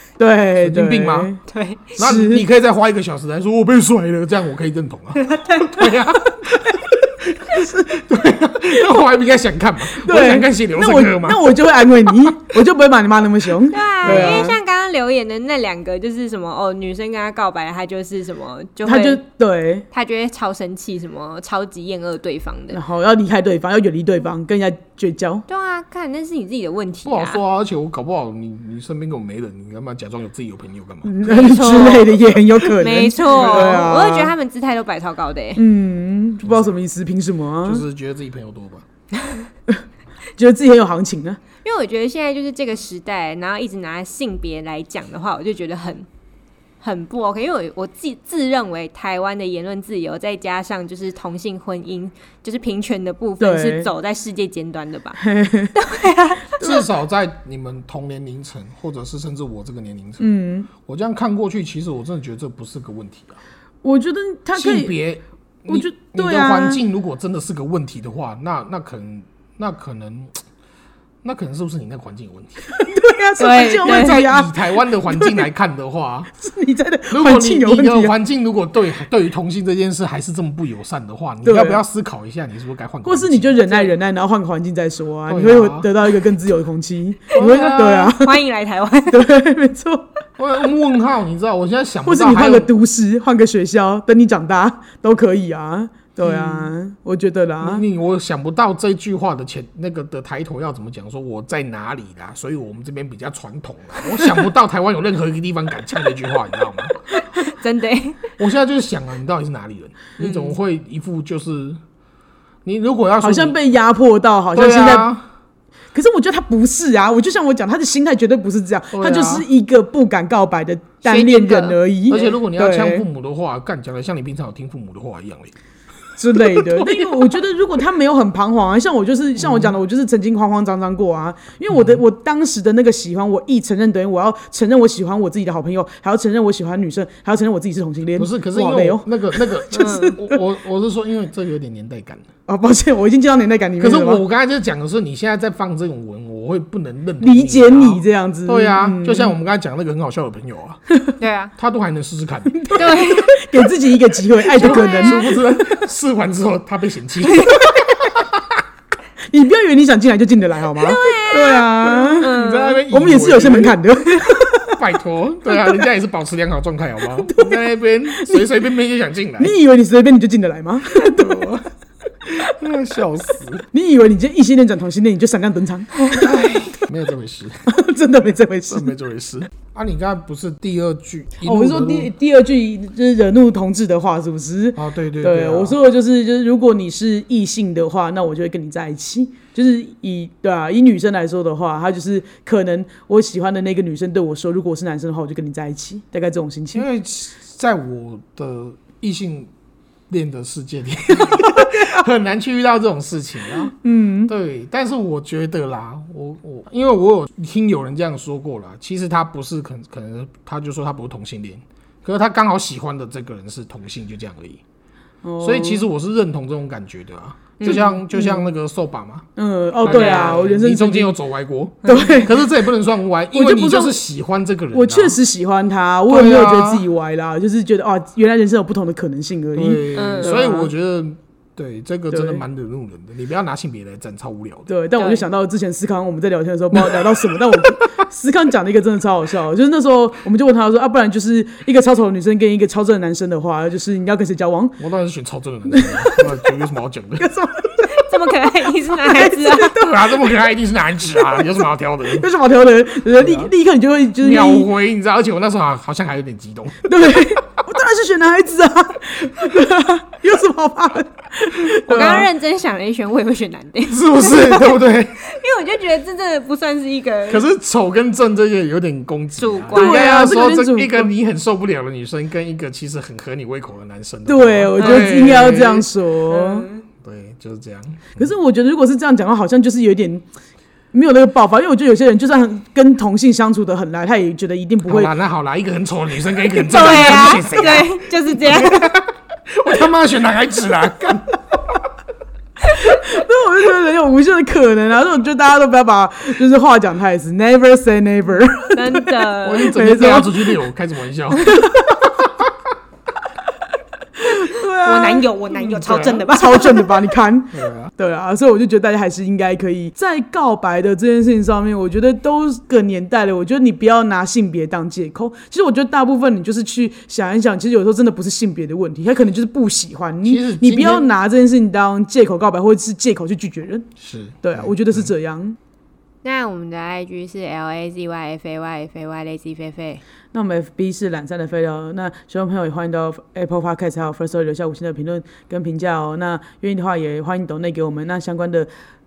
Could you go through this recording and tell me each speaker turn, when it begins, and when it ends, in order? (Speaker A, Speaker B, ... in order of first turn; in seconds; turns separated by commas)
Speaker A: 0.2-1.4, Speaker B: 0.6-1.3, Speaker C: 1.5-2.0, Speaker A: 2.0-2.4, Speaker B: 2.0-11.4, Speaker C: 5.2-5.9, Speaker A: 9.9-14.6, Speaker C: 13.7-19.2, Speaker B: 14.0-14.4, Speaker A: 18.9-19.9, Speaker C: 19.9-22.8, Speaker A: 22.7-25.4, Speaker C: 25.5-27.4, Speaker B: 27.0-31.4, Speaker A: 31.0-34.3, Speaker C: 31.2-35.6, Speaker B: 33.3-33.8, Speaker A: 35.5-37.8, Speaker B: 36.4-36.7, Speaker B: 37.6-38.8, Speaker A: 40.4-41.4, Speaker C: 41.6-46.1, Speaker C: 46.8-55.2, Speaker A: 53.4-53.9, Speaker A: 55.2-55.7, Speaker C: 55.7-56.6, Speaker B: 56.6-60.2, Speaker A: 56.6-56.9, Speaker A: 60.2-60.7, Speaker B: 60.8-63.4, Speaker A: 63.8-64.9, Speaker B: 64.5-70.3, Speaker A: 65.7-66.8, Speaker B: 71.2-72.7, Speaker A: 72.7-75.5, Speaker C: 73.4-74.2, Speaker B: 73.8-76.3, Speaker A: 76.4-78.1, Speaker B: 77.1-83.6, Speaker A: 81.4-81.8, Speaker A: 83.0-88.4, Speaker B: 85.3-85.9, Speaker B: 87.3-88.1, Speaker C: 87.4-89.2, Speaker A: 89.1-90.0, Speaker B: 90.4-92.7, Speaker A: 92.0-97.8, Speaker C: 96.3-96.7, Speaker B: 97.6-106.9, Speaker C: 107.1-108.2, Speaker B: 108.4-111.8, Speaker C: 110.2-110.5, Speaker B: 112.6-113.6, Speaker A: 113.2-115.1, Speaker B: 114.5-115.3, Speaker A: 115.9-123.0, Speaker B: 118.9-119.5, Speaker C: 121.0-121.8, Speaker B: 122.1-125.5, Speaker A: 126.2-140.4, Speaker B: 126.3-127.3, Speaker B: 129.4-129.7, Speaker B: 131.7-132.0, Speaker B: 138.2-142.2, Speaker C: 139.7-140.2, Speaker A: 142.5-144.2, Speaker B: 143.8-150.8, Speaker A: 147.2-149.3, Speaker C: 151.2-151.5, Speaker B: 151.6-153.0, Speaker A: 152.5-155.8, Speaker C: 152.7-153.4, Speaker B: 154.5-158.6, Speaker C: 154.6-155.2, Speaker A: 159.3-164.8, Speaker C: 160.8-162.8, Speaker B: 162.2-163.8, Speaker B: 164.7-169.5, Speaker A: 165.5-165.8, Speaker A: 167.2-168.6, Speaker A: 169.4-171.4, Speaker B: 170.9-171.7, Speaker B: 172.2-173.7, Speaker A: 173.7-176.7, Speaker B: 176.2-177.7, Speaker A: 177.7-178.9, Speaker B: 178.7-182.1, Speaker A: 181.4-196.8, Speaker B: 184.8-185.8, Speaker B: 196.7-199.5, Speaker B: 200.1-203.7, Speaker A: 203.8-204.3, Speaker B: 204.3-214.6, Speaker A: 215.2-215.8, Speaker B: 215.4-219.2, Speaker C: 217.6-217.9, Speaker A: 217.6-218.5, Speaker A: 219.3-221.2, Speaker B: 219.8-225.2, Speaker C: 219.8-220.3, Speaker A: 221.8-222.4, Speaker A: 223.3-224.0, Speaker A: 224.7-230.7, Speaker B: 226.1-226.8, Speaker B: 229.6-234.7, Speaker C: 229.9-230.4, Speaker A: 232.1-232.4, Speaker A: 234.7-244.8, Speaker C: 235.0-235.2, Speaker B: 236.7-237.1, Speaker B: 244.8-247.3, Speaker A: 245.7-246.4, Speaker A: 247.2-248.1, Speaker C: 247.9-249.8, Speaker A: 248.9-250.4, Speaker B: 249.7-252.3, Speaker A: 251.2-251.5, Speaker A: 252.1-254.7, Speaker B: 253.2-253.5, Speaker B: 254.2-257.2, Speaker A: 256.8-262.3, Speaker C: 261.8-267.4, Speaker B: 263.9-265.1, Speaker B: 267.3-275.9, Speaker C: 269.4-270.1, Speaker A: 269.7-271.1, Speaker A: 274.3-276.7, Speaker C: 274.8-275.1, Speaker C: 276.3-276.8, Speaker B: 277.0-278.3, Speaker A: 278.2-280.2, Speaker A: 280.9-285.1, Speaker B: 284.8-291.4, Speaker C: 286.5-289.0, Speaker A: 286.9-287.4, Speaker A: 292.6-300.6, Speaker C: 298.7-299.8, Speaker B: 299.4-302.4, Speaker A: 301.5-301.9, Speaker A: 304.2-305.2, Speaker C: 304.2-306.9, Speaker B: 305.7-306.2, Speaker A: 306.3-323.9, Speaker B: 307.5-307.9, Speaker B: 320.2-321.1, Speaker B: 324.0-325.1, Speaker A: 324.4-325.6, Speaker C: 326.2-330.0, Speaker A: 330.3-338.7